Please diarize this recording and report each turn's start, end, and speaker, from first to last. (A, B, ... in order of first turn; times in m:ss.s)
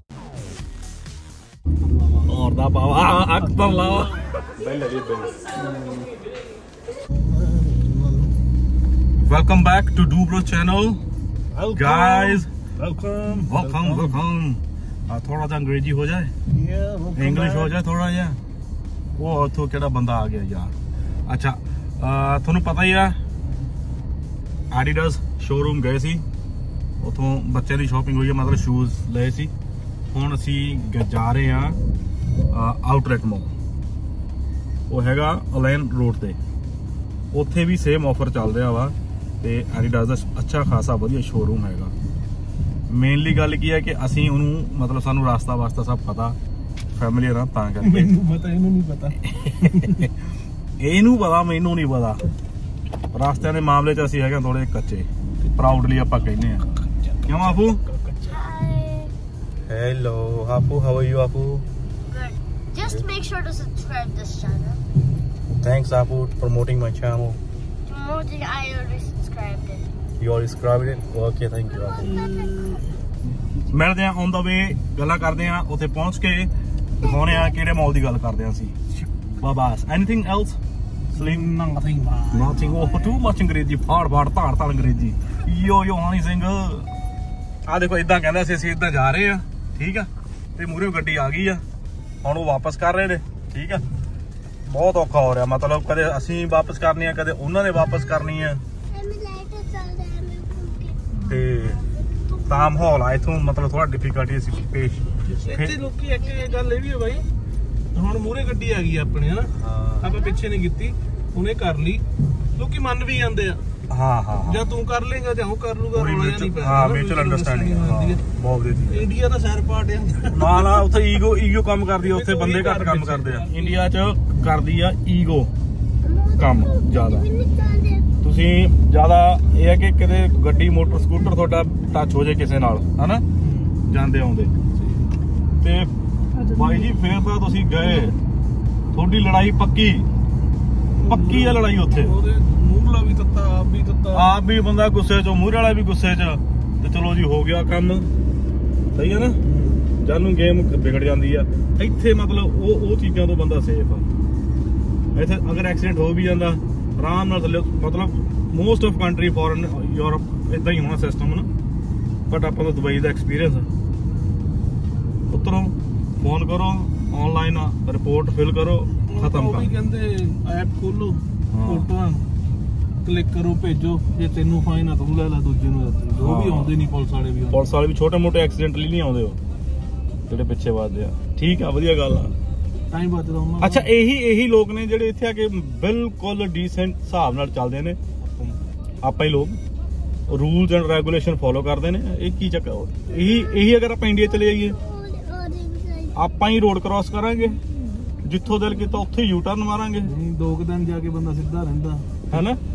0:01.8-0:02.3 A
0:02.3-0:05.3 B
0:03.4-0:04.1 A
0:05.6-0:06.1 A
0:07.1-0:08.3 A
0:09.2-0:11.0 B
0:11.5-0:14.2 A
0:11.7-0:12.5 B
0:13.4-0:16.3 B
0:16.5-0:17.8 A
0:17.2-0:18.4 B
0:19.2-0:20.7 B
0:21.3-0:23.2 B
0:24.7-0:26.2 B
0:27.0-0:29.5 B
0:30.1-0:31.8 B
0:32.5-0:33.5 B
0:34.9-0:36.4 B
0:37.3-0:41.9 B
0:42.9-0:46.4 B
0:47.0-0:48.2 B
0:47.8-0:50.1 A
0:49.3-0:50.1 B
0:50.8-0:52.2 B
0:53.1-0:56.7 B
0:56.9-0:58.6 A
0:57.3-0:57.8 B
0:58.4-0:59.1 C
0:59.7-1:01.6 B
1:02.1-1:04.8 C
1:02.8-1:03.0 B
1:05.6-1:07.4 B
1:07.9-1:09.8 C
1:10.2-1:12.3 B
1:12.1-1:12.9 A
1:13.7-1:18.8 B
1:19.4-1:20.6 B
1:21.1-1:23.2 A
1:21.2-1:21.5 B
1:22.3-1:26.9 B
1:27.7-1:31.6 B
1:32.2-1:33.8 B
1:34.7-1:38.6 B
1:38.9-1:41.1 C
1:41.2-1:41.8 B
1:42.4-1:45.8 B
1:45.4-1:47.3 A
1:47.9-1:52.0 A
1:49.6-1:50.1 B
1:52.6-1:53.6 A
1:53.9-1:54.7 B
1:54.5-1:58.2 A
1:55.9-1:59.1 B
1:58.9-2:00.9 A
2:00.3-2:05.5 B
2:02.0-2:03.8 A
2:06.1-2:08.1 C
2:06.4-2:07.3 B
2:08.2-2:13.2 B
2:13.4-2:13.8 A
2:13.9-2:14.5 B
2:14.7-2:15.2 A
2:15.6-2:15.9 B
2:16.5-2:18.2 B
2:18.9-2:20.1 B
2:20.9-2:24.3 A
2:21.1-2:22.2 B
2:24.1-2:28.1 B
2:28.9-2:29.4 B
2:29.4-2:29.9 A
2:30.0-2:34.1 B
2:35.2-2:41.5 B
2:42.3-2:43.7 B
2:45.3-2:49.7 B
2:49.1-2:52.3 A
2:51.5-2:51.9 B
2:53.0-2:57.7 A
2:56.2-2:56.8 B
2:57.5-2:59.4 B
3:00.3-3:02.3 B
3:02.9-3:03.9 A
3:03.6-3:08.0 B
3:08.2-3:08.6 A
3:09.0-3:09.6 B
3:10.3-3:14.8 B
3:15.1-3:16.1 C
3:16.1-3:17.6 B
3:18.2-3:20.1 B
3:20.0-3:22.4 A
3:22.3-3:22.6 B